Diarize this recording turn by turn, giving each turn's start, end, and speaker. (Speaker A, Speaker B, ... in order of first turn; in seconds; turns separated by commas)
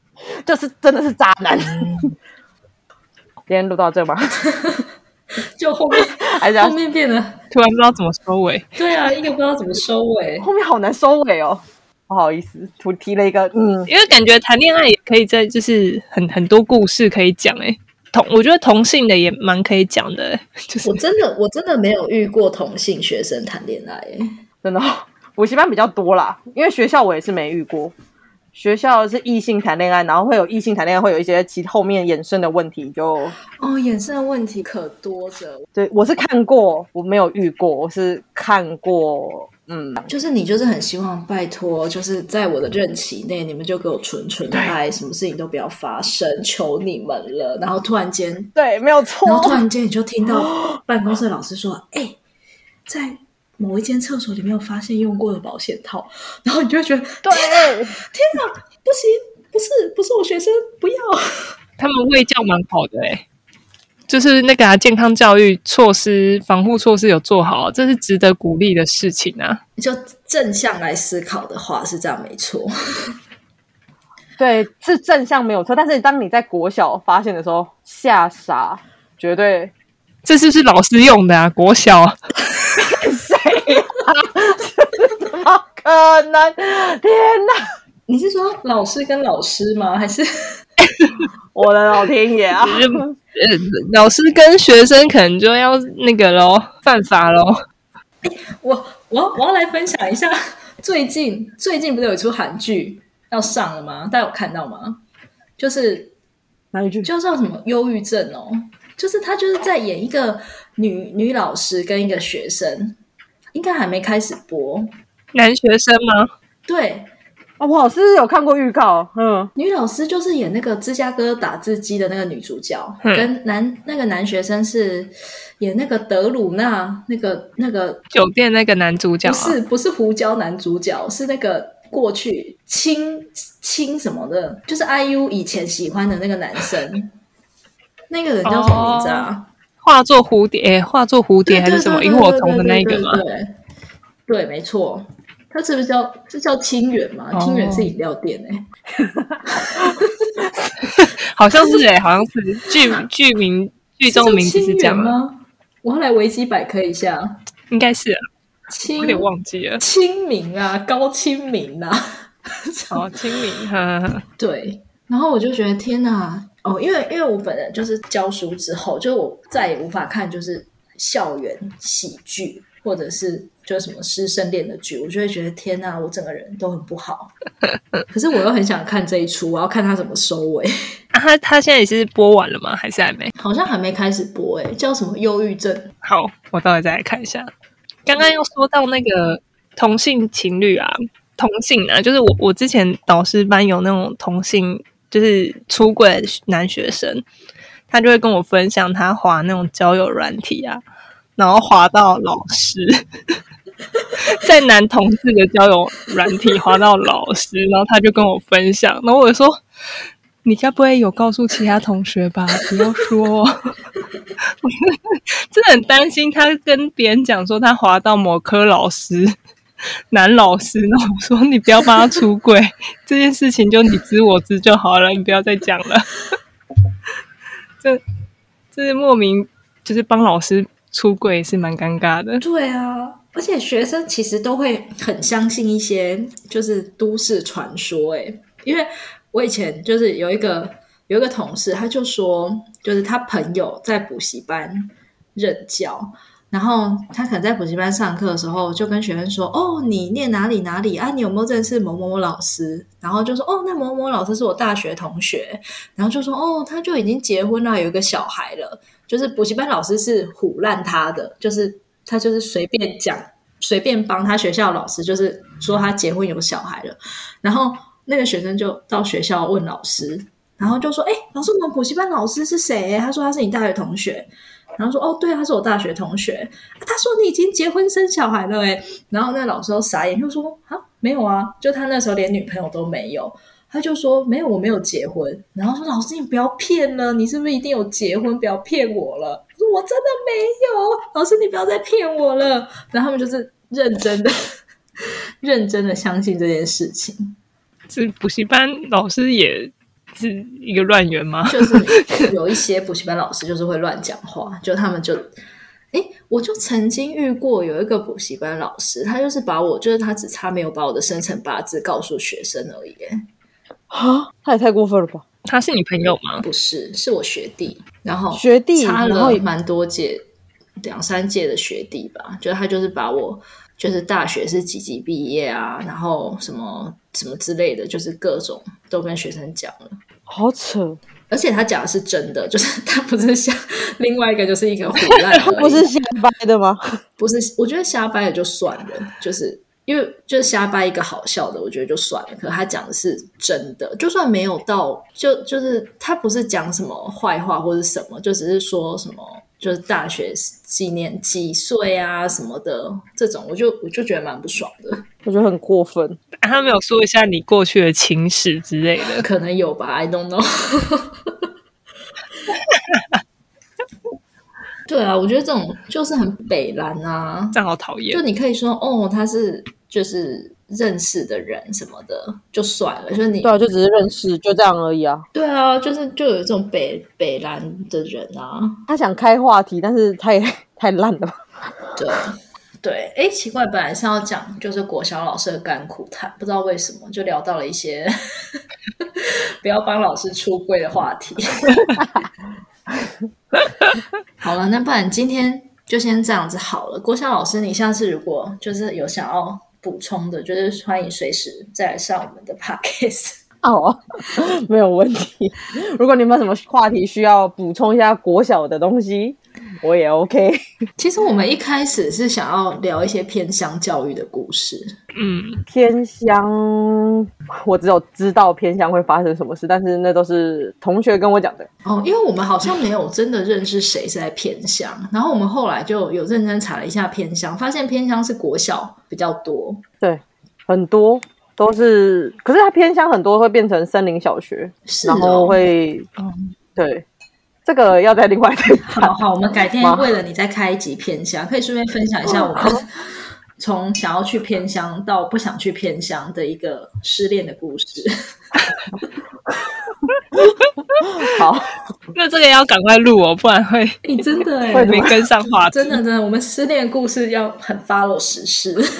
Speaker A: 0.3-2.1, Speaker A: 3.5-4.4, Speaker B: 4.5-4.8, Speaker B: 5.5-7.4, Speaker A: 6.2-6.7, Speaker C: 7.5-8.7, Speaker B: 8.8-10.5, Speaker A: 10.4-13.9, Speaker C: 13.9-20.9, Speaker B: 20.8-24.3, Speaker A: 24.6-27.9, Speaker A: 28.5-33.3, Speaker B: 33.5-35.6, Speaker A: 35.7-40.1, Speaker B: 40.1-48.5, Speaker A: 44.5-44.8, Speaker A: 48.5-49.6, Speaker B: 49.2-52.2, Speaker B: 52.9-61.2, Speaker A: 57.2-58.0, Speaker C: 61.8-63.2, Speaker C: 64.1-69.6, Speaker B: 69.8-73.1, Speaker A: 74.4-79.7, Speaker C: 80.2-82.2, Speaker A: 82.8-87.6, Speaker B: 88.1-90.2, Speaker C: 90.8-91.2, Speaker A: 91.5-93.1, Speaker C: 92.6-97.6, Speaker B: 98.2-105.0, Speaker B: 105.6-106.1, Speaker A: 106.7-107.1, Speaker B: 107.0-113.0, Speaker B: 113.5-114.9, Speaker C: 115.3-116.3, Speaker B: 116.7-117.1, Speaker A: 117.6-119.5, Speaker B: 119.5-128.0, Speaker C: 123.0-123.3, Speaker C: 128.1-129.6, Speaker B: 129.2-137.1, Speaker B: 138.1-139.5, Speaker C: 138.4-139.3, Speaker C: 139.8-143.2, Speaker B: 141.5-143.5, Speaker B: 144.3-148.6, Speaker C: 147.3-147.9, Speaker A: 149.0-149.3, Speaker B: 149.5-150.3, Speaker C: 150.9-155.1, Speaker B: 154.1-157.4, Speaker C: 157.7-158.2, Speaker B: 158.7-159.3, Speaker C: 159.0-159.8, Speaker B: 159.8-163.0, Speaker C: 162.9-164.2, Speaker B: 164.4-177.3, Speaker B: 178.1-180.7, Speaker C: 181.1-183.3, Speaker B: 183.3-185.9, Speaker C: 186.0-187.5, Speaker C: 188.1-197.2, Speaker C: 197.9-200.8, Speaker C: 201.4-203.4, Speaker C: 204.2-209.6, Speaker C: 210.4-213.7, Speaker C: 214.4-219.3, Speaker C: 220.1-226.2, Speaker C: 228.7-232.4, Speaker B: 232.4-294.4, Speaker B: 295.4-297.3, Speaker C: 297.9-302.2, Speaker B: 301.5-305.3, Speaker B: 305.9-313.2, Speaker A: 313.9-315.2, Speaker C: 315.4-316.4, Speaker B: 316.4-320.3, Speaker A: 318.3-319.4, Speaker B: 320.8-330.0, Speaker A: 330.3-331.0, Speaker B: 331.3-335.9, Speaker A: 335.1-336.8, Speaker B: 337.2-355.0, Speaker A: 355.2-356.2, Speaker C: 356.4-359.2, Speaker B: 359.2-361.3, Speaker C: 362.7-363.0, Speaker B: 364.9-367.6, Speaker C: 367.5-368.2, Speaker B: 368.1-373.6, Speaker A: 373.4-375.2, Speaker B: 375.3-378.8, Speaker A: 378.9-381.4, Speaker B: 381.9-388.6, Speaker B: 389.2-392.0, Speaker B: 394.4-403.4, Speaker A: 403.6-410.6, Speaker B: 411.0-414.9, Speaker C: 415.1-415.6, Speaker A: 415.7-421.7, Speaker B: 421.8-429.8, Speaker A: 430.0-436.1, Speaker B: 434.9-435.6, Speaker A: 436.8-437.0, Speaker A: 437.6-439.1, Speaker B: 438.8-442.9, Speaker A: 439.8-440.1, Speaker A: 442.3-442.8, Speaker B: 443.6-448.1, Speaker A: 451.2-451.7, Speaker C: 452.1-454.0, Speaker B: 454.0-458.9, Speaker A: 454.7-455.2, Speaker C: 454.8-456.0